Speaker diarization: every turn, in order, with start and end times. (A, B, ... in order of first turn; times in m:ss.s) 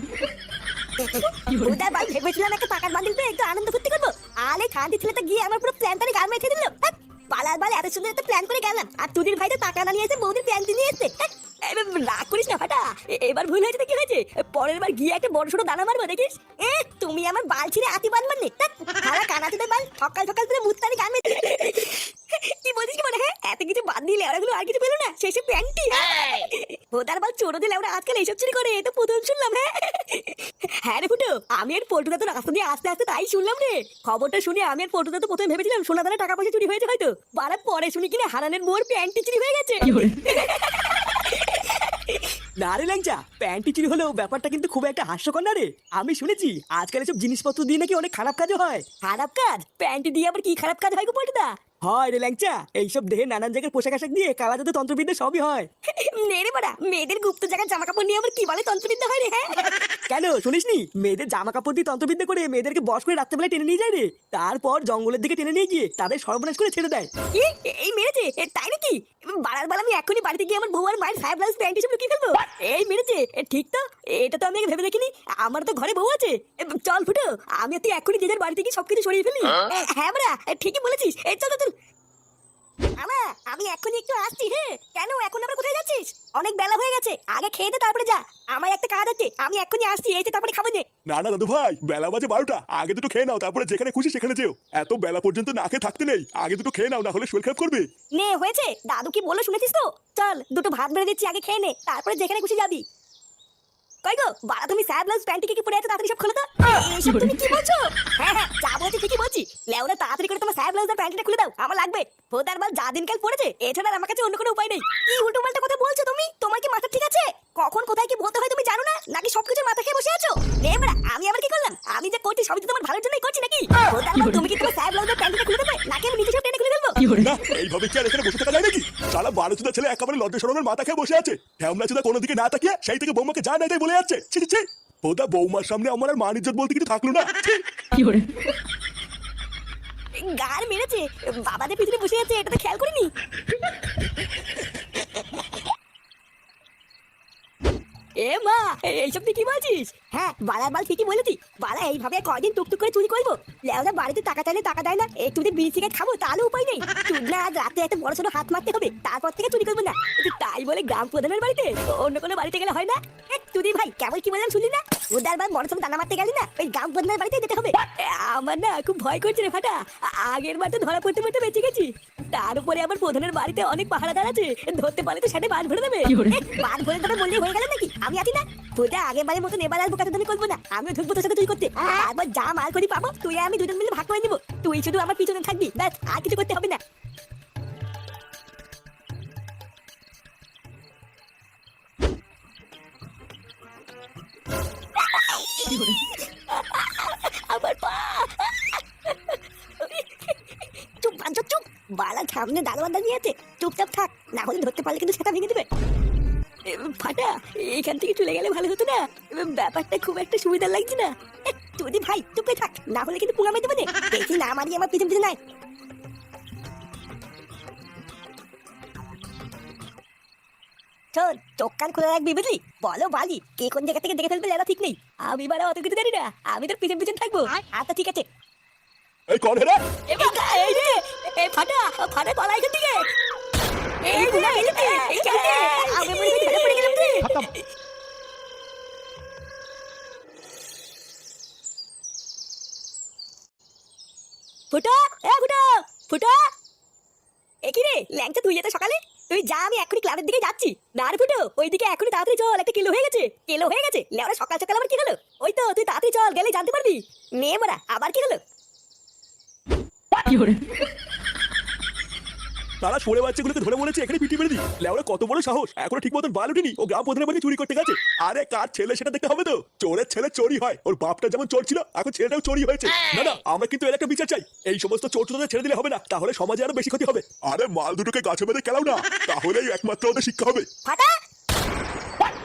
0:01.0-0:42.3 A
0:42.6-0:48.9 B
0:49.0-0:51.6 A
0:51.8-0:55.7 B
0:55.9-0:59.7 A
1:00.1-1:07.1 B
1:07.3-1:21.7 A
1:23.0-1:30.8 A
1:31.1-1:37.9 C
1:38.2-1:42.8 A
1:44.0-2:07.2 A
2:07.2-2:17.5 C
2:20.2-2:23.1 A
2:28.2-3:06.8 A
3:15.0-3:25.7 A
3:26.7-3:35.4 A
3:41.1-3:48.3 A
3:49.3-3:49.8 C
3:50.1-3:53.1 A
3:54.0-3:57.6 A
3:54.2-3:55.0 B
3:56.1-3:57.4 B
4:04.7-4:06.5 A
4:07.7-4:18.4 A
4:22.8-4:40.7 C
4:40.9-4:41.1 A